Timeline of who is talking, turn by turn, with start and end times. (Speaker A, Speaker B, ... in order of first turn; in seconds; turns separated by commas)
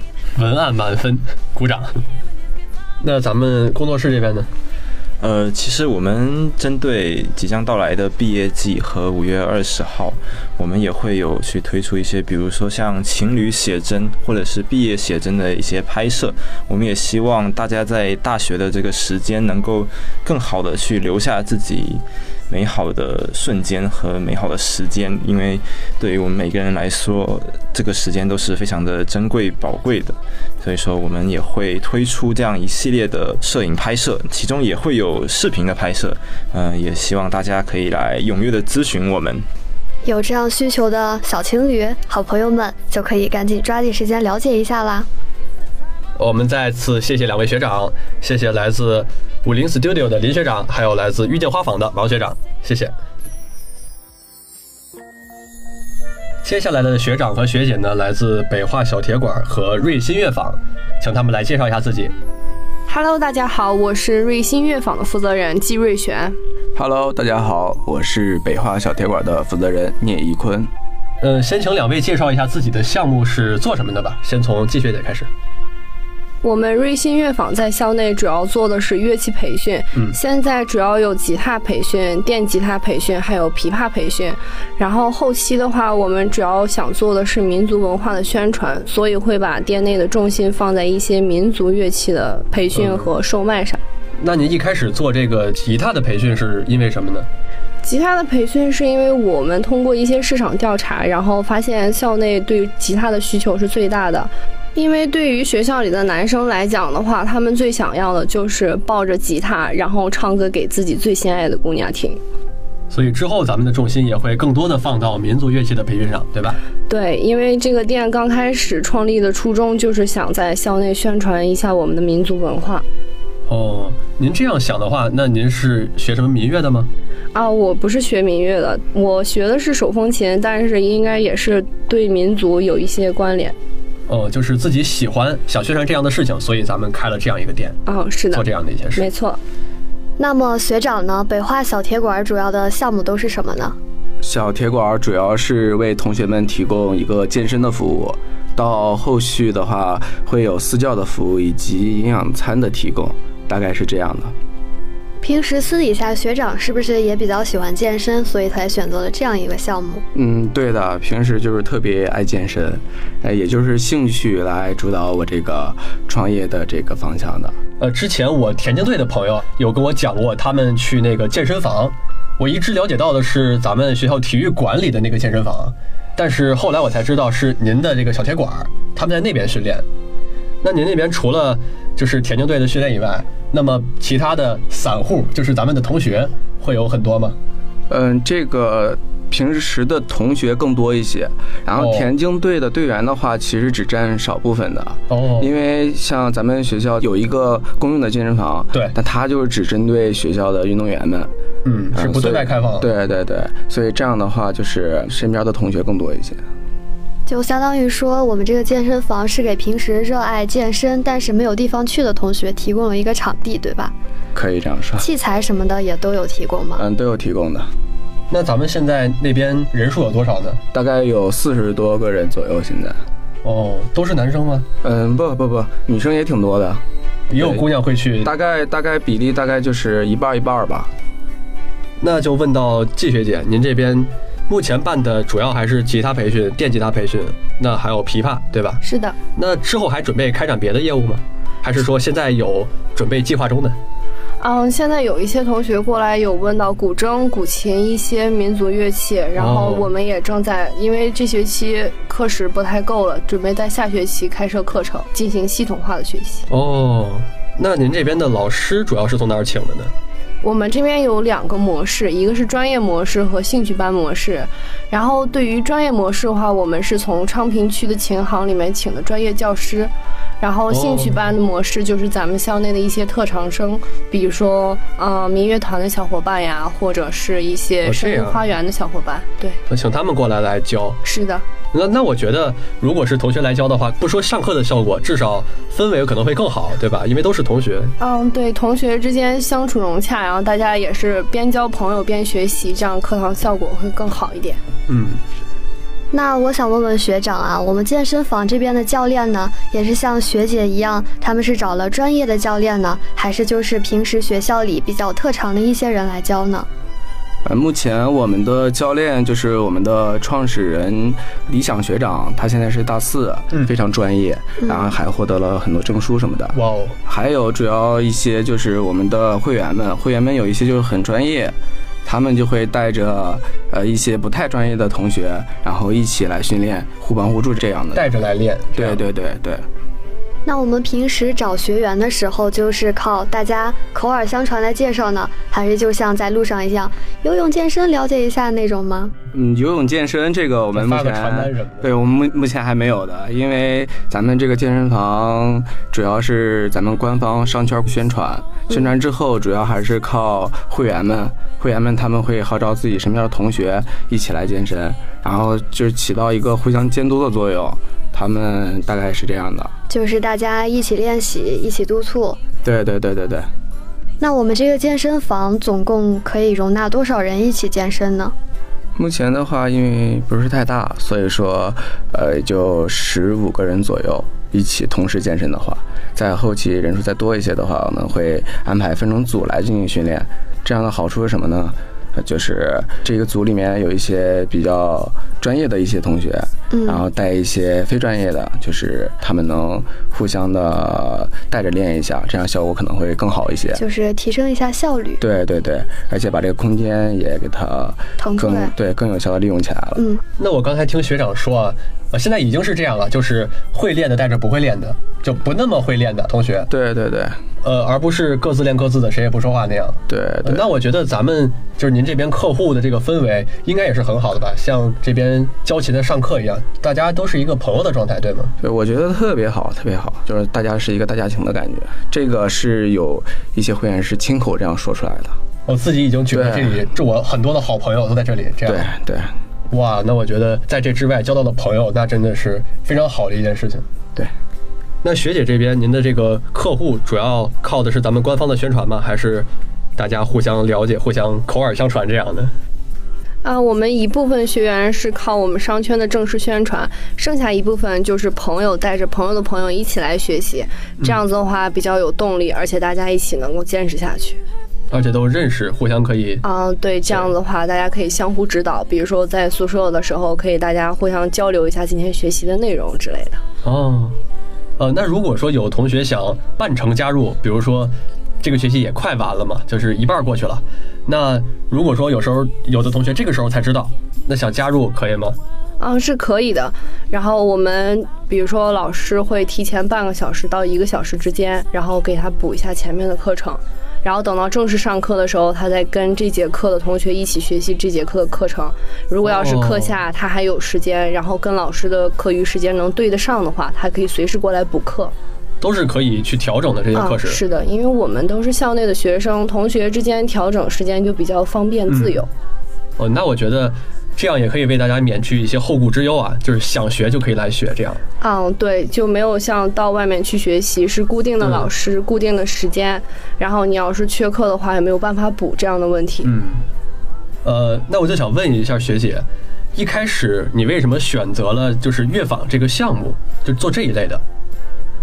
Speaker A: 0.3-2.0, Speaker A: 3.0-4.5, Speaker B: 5.2-39.5, Speaker C: 40.0-45.1, Speaker A: 46.2-52.9, Speaker A: 56.4-62.1, Speaker D: 62.9-66.4, Speaker E: 66.7-70.7, Speaker A: 71.2-75.3, Speaker D: 76.4-93.8, Speaker A: 92.7-93.1, Speaker A: 94.2-97.3, Speaker D: 97.8-112.2, Speaker A: 112.9-116.6, Speaker D: 116.9-122.8, Speaker A: 123.5-126.9, Speaker D: 127.3-133.6, Speaker A: 134.1-137.8, Speaker D: 137.8-139.4, Speaker A: 138.3-139.1, Speaker C: 140.2-143.8, Speaker E: 144.2-154.3, Speaker C: 155.2-160.0, Speaker E: 160.1-167.6, Speaker A: 167.8-179.8, Speaker A: 180.6-187.4, Speaker E: 187.9-201.3, Speaker A: 191.8-192.1, Speaker A: 195.1-195.5, Speaker A: 201.6-202.9, Speaker E: 201.9-206.4, Speaker C: 207.3-213.9, Speaker E: 214.3-215.1, Speaker C: 215.0-216.8, Speaker E: 216.8-217.7, Speaker A: 218.3-220.6, Speaker E: 220.7-223.0, Speaker A: 223.4-224.7, Speaker E: 224.8-226.8, Speaker A: 227.3-228.3, Speaker E: 227.3-227.6, Speaker E: 228.2-230.9, Speaker A: 232.0-238.8, Speaker D: 238.8-239.2, Speaker A: 239.3-243.8, Speaker D: 244.4-256.4, Speaker A: 249.4-249.9, Speaker A: 256.5-259.9, Speaker D: 260.4-279.6, Speaker A: 270.7-271.2, Speaker A: 277.8-278.4, Speaker A: 279.7-281.0, Speaker D: 281.0-281.5, Speaker A: 281.7-287.9, Speaker D: 288.0-294.6, Speaker A: 294.9-295.2, Speaker C: 296.1-306.7, Speaker E: 307.4-328.1, Speaker C: 314.6-314.9, Speaker A: 316.5-316.9, Speaker A: 327.9-329.0, Speaker E: 328.7-329.6, Speaker C: 330.4-339.1, Speaker E: 339.3-359.7, Speaker A: 340.7-341.9, Speaker C: 359.9-362.4, Speaker E: 362.6-363.5, Speaker C: 364.2-368.3, Speaker E: 368.9-393.8, Speaker C: 386.7-387.0, Speaker C: 393.7-395.2, Speaker E: 395.2-400.0, Speaker C: 398.2-398.7, Speaker C: 399.9-400.2, Speaker A: 400.4-406.7, Speaker E: 406.7-407.4, Speaker A: 407.6-418.5, Speaker E: 410.1-410.7, Speaker E: 418.6-425.4, Speaker A: 425.7-428.9, Speaker E: 426.3-426.8, Speaker E: 428.6-429.3, Speaker A: 429.7-433.9, Speaker A: 435.0-442.5, Speaker D: 443.4-454.4, Speaker A: 454.9-456.4, Speaker D: 456.4-463.4, Speaker A: 463.6-464.2, Speaker A: 464.8-475.4, Speaker D: 475.8-495.1, Speaker A: 489.2-489.9, Speaker A: 495.6-497.4, Speaker D: 496.9-502.3, Speaker A: 501.9-502.2, Speaker A: 503.0-508.0, Speaker D: 508.2-516.3, Speaker A: 511.4-511.7, Speaker A: 516.2-516.6, Speaker A: 517.4-524.2